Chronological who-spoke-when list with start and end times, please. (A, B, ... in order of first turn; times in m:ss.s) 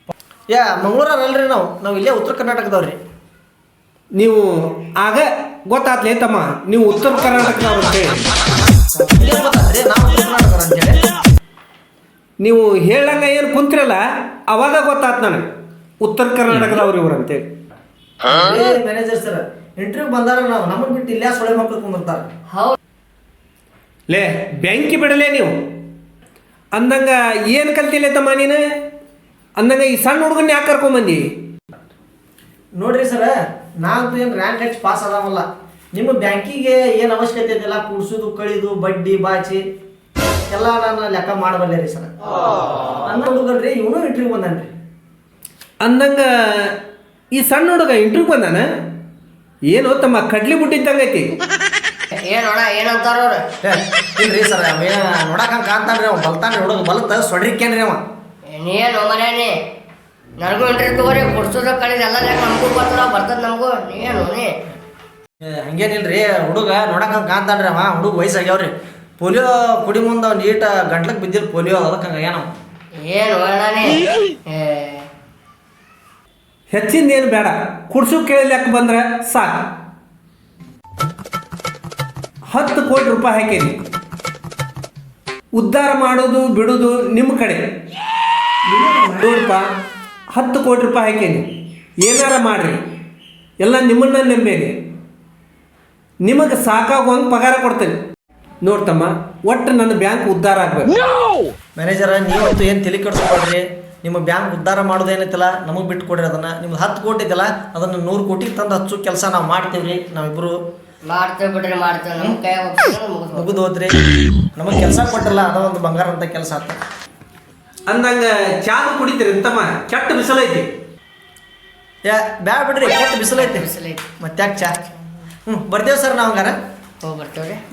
0:00.5-0:03.0 A
0:04.2-0:08.2 B
0:09.0-0:11.0 A
0:12.4-0:15.5 B
0:16.0-0:17.5 B
0:18.3-0:22.3 A
0:22.5-0:22.8 C
0:24.1-0:25.7 B
0:26.8-0:28.6 B
0:29.6-0:31.3 B
0:32.8-0:39.6 A
0:40.5-0:42.1 A
0:43.1-0:44.7 A
0:45.8-0:46.8 B
0:47.4-0:48.7 B
0:49.7-0:51.3 B
0:52.2-0:53.4 C
0:53.6-0:58.0 A
0:58.6-0:59.5 C
1:00.4-1:04.5 C
1:05.4-1:12.5 A
1:13.0-1:15.0 C
1:16.7-1:19.7 B
1:22.5-1:23.8 B
1:25.6-1:27.6 B
1:28.7-1:29.7 B
1:30.4-1:31.5 B
1:32.0-1:32.8 B
1:33.6-1:34.7 B
1:36.2-1:38.0 B
1:38.6-1:41.0 B
1:41.8-1:50.6 A
1:51.0-1:53.6 C
1:53.3-1:56.8 A
1:57.9-2:00.7 B
2:02.0-2:03.7 A
2:03.0-2:04.1 C
2:04.2-2:04.8 A
2:04.6-2:04.9 C
2:05.5-2:06.6 A
2:07.0-2:07.6 C